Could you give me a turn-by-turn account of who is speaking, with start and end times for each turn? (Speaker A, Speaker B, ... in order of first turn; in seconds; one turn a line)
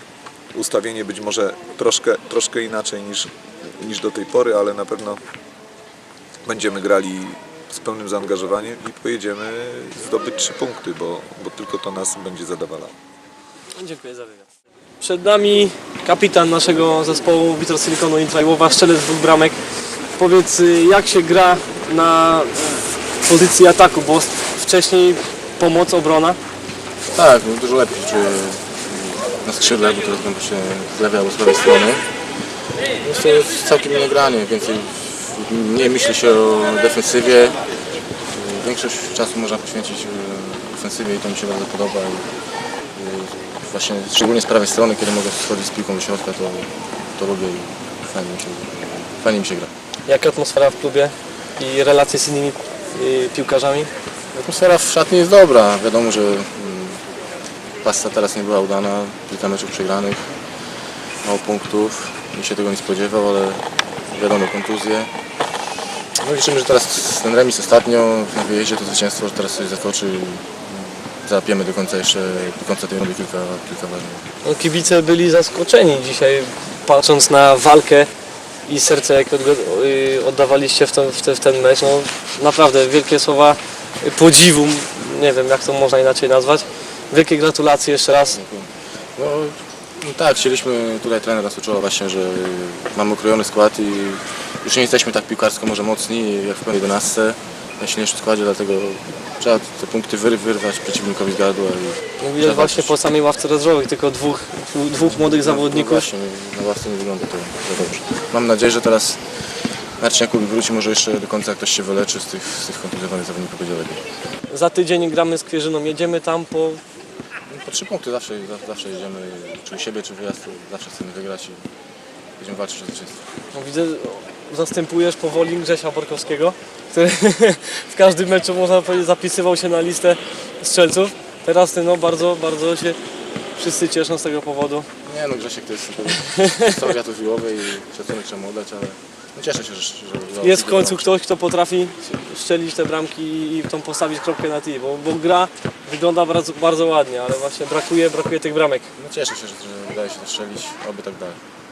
Speaker A: 0.6-5.2
Speaker A: 6.5-12.9
Speaker B: 13.8-14.5
Speaker B: 15.0-19.6
Speaker B: 20.2-26.4
Speaker C: 27.1-32.1
Speaker C: 32.9-37.6
Speaker C: 38.2-49.7
Speaker B: 50.1-53.9
Speaker C: 54.3-57.0
Speaker C: 57.8-60.4
Speaker C: 61.2-65.1
Speaker C: 66.2-74.3
Speaker B: 74.4-78.1
Speaker B: 78.7-88.4
Speaker C: 88.3-103.0
Speaker B: 102.2-106.1
Speaker C: 105.1-114.0
Speaker B: 114.5-116.8
Speaker C: 117.5-121.7
Speaker C: 122.4-123.3
Speaker B: 123.5-133.0
Speaker B: 133.6-134.9
Speaker C: 135.1-141.2
Speaker B: 136.2-136.8
Speaker B: 140.4-148.9
Speaker C: 149.0-151.4